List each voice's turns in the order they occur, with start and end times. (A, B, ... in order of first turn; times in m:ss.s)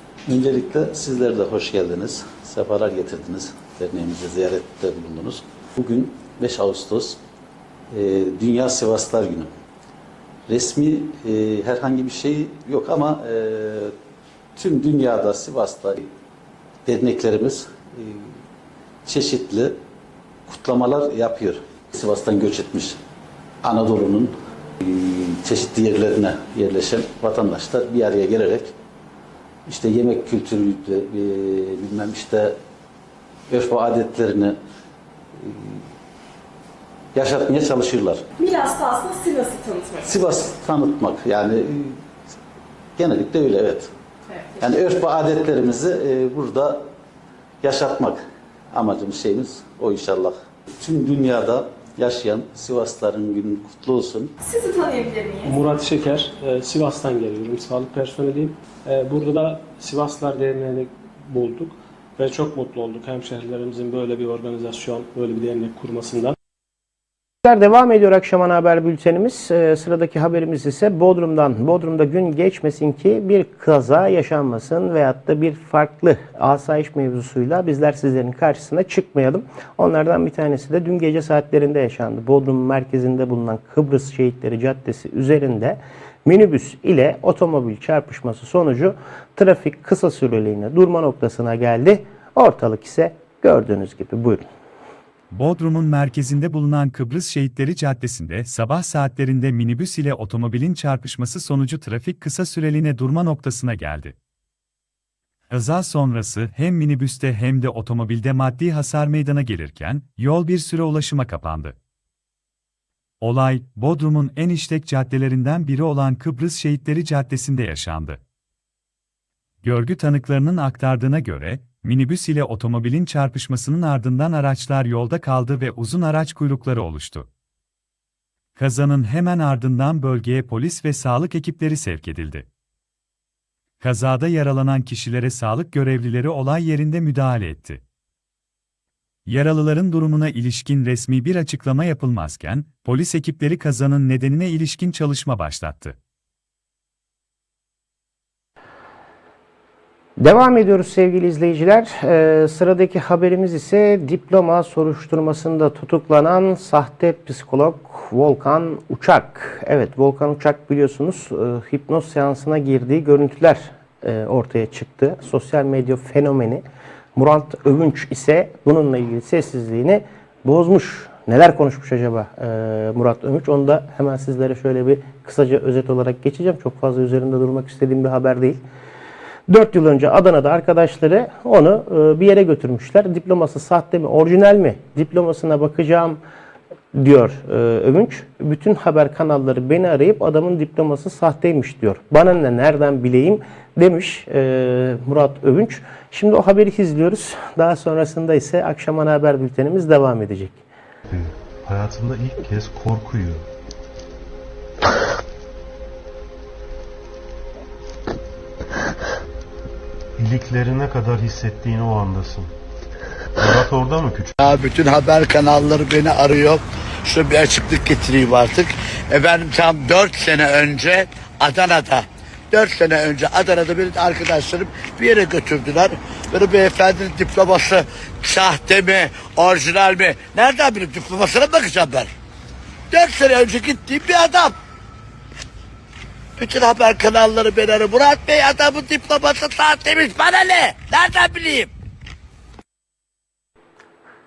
0:00.3-0:07.2 A
0:07.9-0:09.5 A
0:10.5-0:13.9 A
0:14.6-0:16.1 A
0:16.9-0:18.2 A
0:19.1-0:19.8 A
0:20.5-0:23.0 A
0:23.6-0:28.7 A
0:29.7-0:32.6 A
0:33.5-0:34.6 A
0:37.2-0:38.2 A
0:38.4-0:40.1 B
0:40.0-0:41.9 A
0:43.0-0:43.9 A
0:44.6-0:46.9 A
0:47.6-0:48.2 A
0:48.7-0:54.3 A
0:54.4-0:55.5 B
0:55.5-1:06.4 C
1:07.4-1:34.4 D
1:35.3-1:44.1 E
1:45.5-1:51.8 E
1:53.2-1:58.2 E
1:59.6-2:07.3 E
2:08.6-2:12.5 E
2:13.8-2:17.8 E
2:19.3-2:26.0 E
2:30.2-2:46.6 D
2:47.2-2:58.6 D
2:59.5-3:06.2 D
3:07.0-3:20.6 D
3:21.1-3:23.4 F
3:30.2-3:32.5 F
3:33.4-3:34.3 F
3:34.4-3:52.1 G
3:52.9-3:54.6 G
3:56.4-4:01.7 G